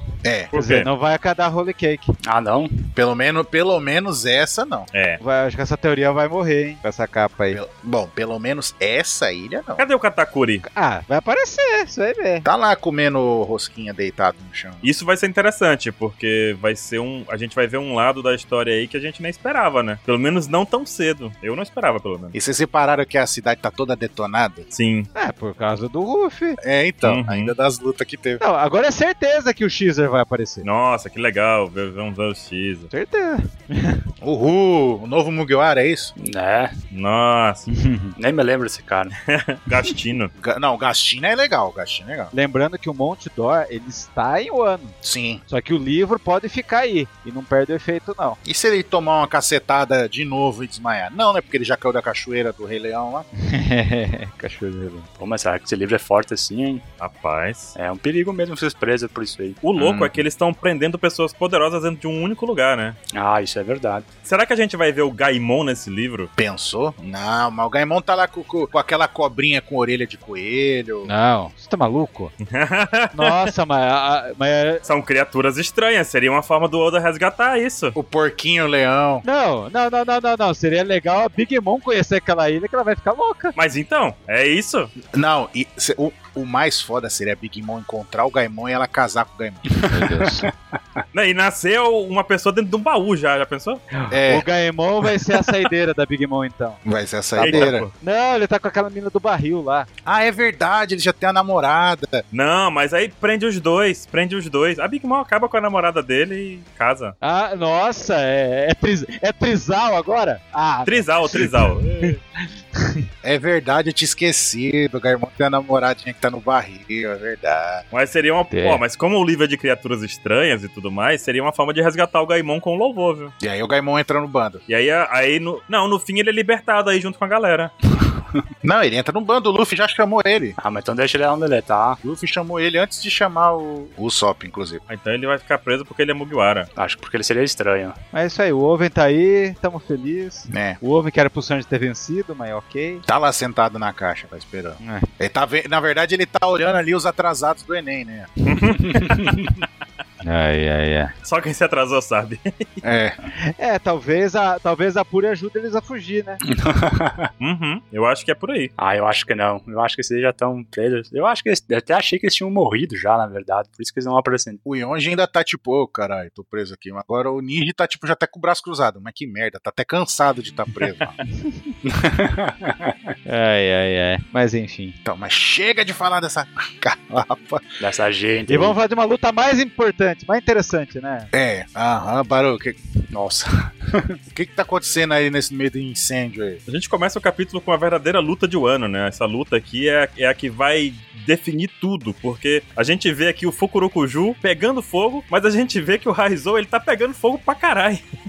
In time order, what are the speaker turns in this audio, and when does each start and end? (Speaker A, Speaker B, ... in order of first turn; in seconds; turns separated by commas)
Speaker A: 0.2-0.5, Speaker B: 0.5-0.9, Speaker C: 0.5-2.1, Speaker D: 2.2-2.9, Speaker A: 3.0-4.9, Speaker B: 4.9-5.2, Speaker C: 5.2-7.6, Speaker A: 7.5-9.8, Speaker B: 9.8-10.6, Speaker C: 10.6-12.5, Speaker A: 12.4-14.9, Speaker B: 14.8-22.4, Speaker A: 22.3-24.7, Speaker B: 24.7-25.1, Speaker C: 25.1-26.6, Speaker A: 26.6-28.4, Speaker B: 27.0-27.5, Speaker C: 28.4-30.7, Speaker B: 30.6-32.9, Speaker C: 32.9-34.0, Speaker A: 34.2-36.1, Speaker D: 36.2-36.7, Speaker B: 36.9-37.7, Speaker C: 37.7-38.1, Speaker D: 38.2-39.1, Speaker B: 39.3-40.3, Speaker A: 40.4-42.3, Speaker C: 42.3-45.0, Speaker A: 45.0-45.4, Speaker C: 45.5-48.4, Speaker A: 48.5-53.3, Speaker C: 53.4-55.1, Speaker D: 55.2-56.8, Speaker B: 57.0-57.8, Speaker D: 57.8-59.6, Speaker B: 59.6-63.0, Speaker A: 59.8-60.2, Speaker D: 63.1-64.1, Speaker B: 64.3-66.3, Speaker A: 66.4-71.1, Speaker C: 71.1-72.3, Speaker B: 72.5-73.5, Speaker C: 73.2-74.8, Speaker B: 74.8-78.0, Speaker A: 78.0-79.2, Speaker C: 79.2-83.6, Speaker B: 83.6-84.9, Speaker A: 85.1-89.7, Speaker D: 89.7-90.5, Speaker C: 89.9-90.5, Speaker B: 91.1-93.8, Speaker C: 94.0-96.8, Speaker A: 94.1-94.5, Speaker A: 96.8-97.9, Speaker C: 97.3-99.9, Speaker B: 97.4-97.9, Speaker A: 100.0-102.2, Speaker B: 102.3-107.2, Speaker C: 107.2-112.2, Speaker B: 110.9-112.2, Speaker C: 112.8-113.0, Speaker A: 113.2-117.8, Speaker B: 117.9-123.3, Speaker C: 118.5-118.8, Speaker A: 123.4-124.6, Speaker B: 124.7-127.7, Speaker A: 128.6-130.6, Speaker D: 130.6-132.0, Speaker A: 132.0-134.8, Speaker B: 134.9-136.7, Speaker D: 136.8-138.0, Speaker C: 138.1-143.1, Speaker A: 140.5-140.8, Speaker A: 143.1-148.3, Speaker C: 144.8-145.1, Speaker B: 148.5-149.6, Speaker D: 148.8-149.5, Speaker C: 150.2-151.1, Speaker B: 151.2-152.8, Speaker A: 152.8-153.2, Speaker C: 153.6-156.4, Speaker D: 156.5-157.3, Speaker B: 157.4-158.7, Speaker D: 158.8-164.6, Speaker A: 164.7-171.2, Speaker D: 171.9-172.9, Speaker C: 173.3-175.0, Speaker A: 175.0-177.7, Speaker D: 177.8-178.8, Speaker C: 178.5-181.3, Speaker A: 181.3-182.8, Speaker D: 183.1-184.2, Speaker A: 184.3-186.6, Speaker B: 186.7-198.0